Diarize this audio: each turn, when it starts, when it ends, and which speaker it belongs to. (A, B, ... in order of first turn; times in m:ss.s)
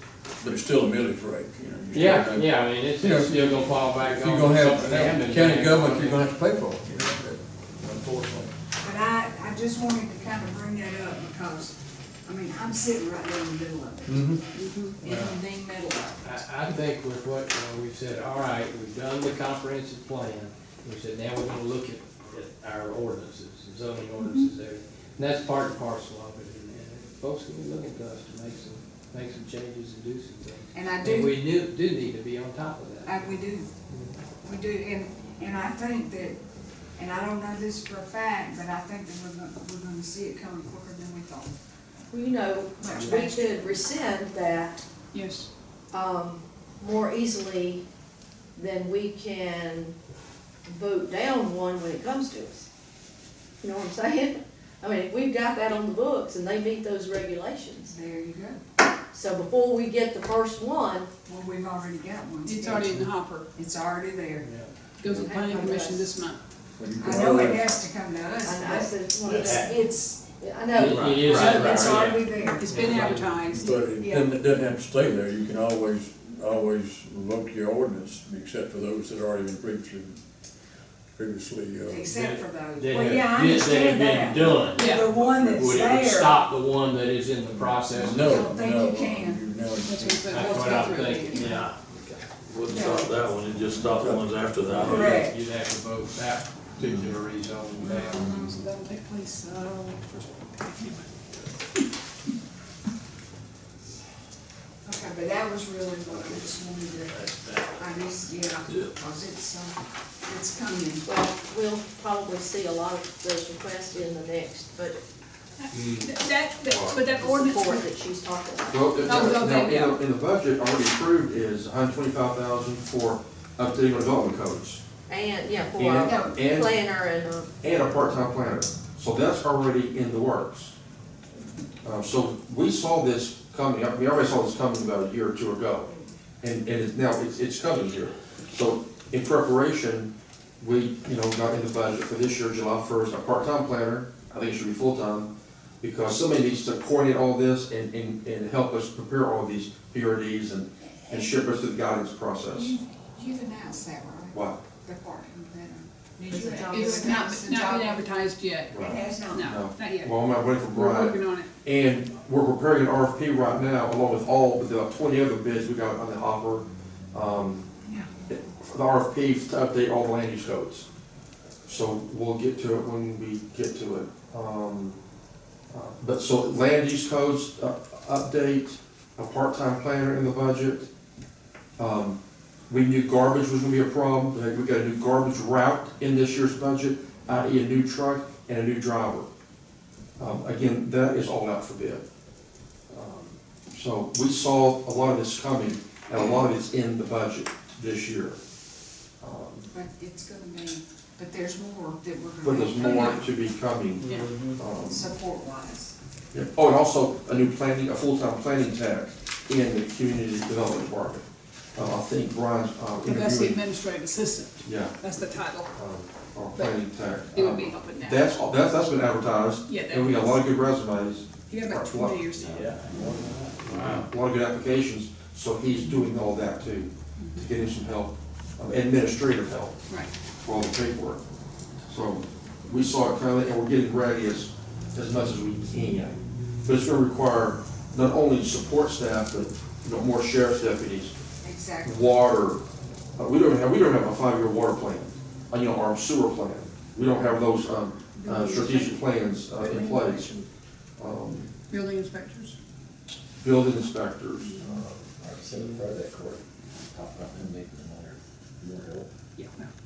0:00.4-0:08.5 A
0:01.9-0:06.3 B
0:08.8-0:14.2 C
0:14.1-0:14.4 A
0:14.5-0:15.0 D
0:15.0-0:15.4 B
0:15.0-0:16.3 C
0:16.2-0:33.2 B
0:30.7-0:31.3 C
0:33.0-0:33.7 C
0:33.9-0:34.2 B
0:34.4-0:36.4 C
0:37.0-0:41.5 C
0:42.1-0:44.8 E
0:42.8-0:43.3 C
0:42.9-0:43.2 B
0:45.1-0:45.5 D
0:45.9-0:47.8 E
0:48.6-0:49.9 E
0:50.7-0:52.6 E
0:53.6-0:58.0 E
0:57.9-0:58.6 C
0:59.1-1:01.1 E
1:01.2-1:03.0 C
1:02.4-1:03.5 D
1:03.5-1:04.5 C
1:04.4-1:04.7 B
1:05.0-1:06.4 D
1:05.0-1:06.1 E
1:06.8-1:07.7 A
1:07.0-1:10.2 C
1:08.4-1:12.0 E
1:09.3-1:09.7 B
1:10.7-1:13.7 B
1:11.0-1:13.2 C
1:11.3-1:11.8 D
1:12.4-1:13.7 D
1:13.5-1:20.2 A
1:14.0-1:14.3 C
1:21.2-1:22.1 A
1:21.9-1:26.4 C
1:22.1-1:28.3 B
1:24.7-1:25.2 D
1:27.6-1:30.4 A
1:28.0-1:29.4 C
1:29.8-1:31.3 D
1:30.2-1:32.2 B
1:30.4-1:31.6 C
1:31.4-1:31.7 F
1:32.4-1:35.2 F
1:32.7-1:33.1 C
1:32.8-1:33.2 B
1:33.8-1:35.2 A
1:34.8-1:35.4 C
1:34.9-1:38.4 B
1:37.8-1:41.1 D
1:38.2-1:38.5 C
1:44.8-1:51.0 C
1:46.1-1:46.5 F
1:47.1-1:48.1 F
1:51.0-1:55.0 E
1:55.7-1:57.9 D
1:55.7-1:56.1 B
1:56.7-1:57.0 G
1:57.1-1:59.2 E
1:58.7-2:04.8 G
1:59.0-2:00.0 D
2:05.1-2:07.5 E
2:05.8-2:06.8 G
2:06.0-2:06.4 C
2:07.6-2:10.7 G
2:11.8-2:15.9 G
2:16.4-2:25.3 G
2:25.8-2:32.7 G
2:32.5-2:38.1 C
2:34.3-2:34.6 G
2:36.3-2:37.3 E
2:36.6-2:40.1 D
2:38.7-2:47.6 G
2:38.8-2:39.5 C
2:40.7-2:41.5 D
2:48.3-2:50.8 G
2:51.7-2:55.0 G
2:55.7-3:00.9 G
3:01.8-3:02.2 G
3:02.7-3:09.3 G
3:10.2-3:12.0 G
3:12.9-3:18.4 G
3:19.2-3:19.7 G
3:19.7-3:23.3 C
3:22.4-3:25.0 G
3:24.0-3:24.6 B
3:24.0-3:24.3 D
3:24.8-3:25.9 C
3:26.3-3:33.6 G
3:33.0-3:35.7 D
3:34.6-3:35.0 G
3:35.7-3:42.4 G
3:36.5-3:38.4 D
3:39.6-3:40.4 D
3:41.5-3:43.2 D
3:42.4-3:44.1 B
3:43.7-3:49.8 G
3:47.2-3:47.5 D
3:50.4-3:51.2 G
3:51.9-4:01.1 G
4:01.4-4:02.1 C
4:01.8-4:02.6 G
4:03.2-4:10.3 G
4:08.2-4:10.4 D
4:11.0-4:11.5 G
4:11.7-4:12.6 D
4:13.4-4:14.8 G
4:14.4-4:14.7 D
4:14.6-4:19.1 H
4:19.4-4:19.7 D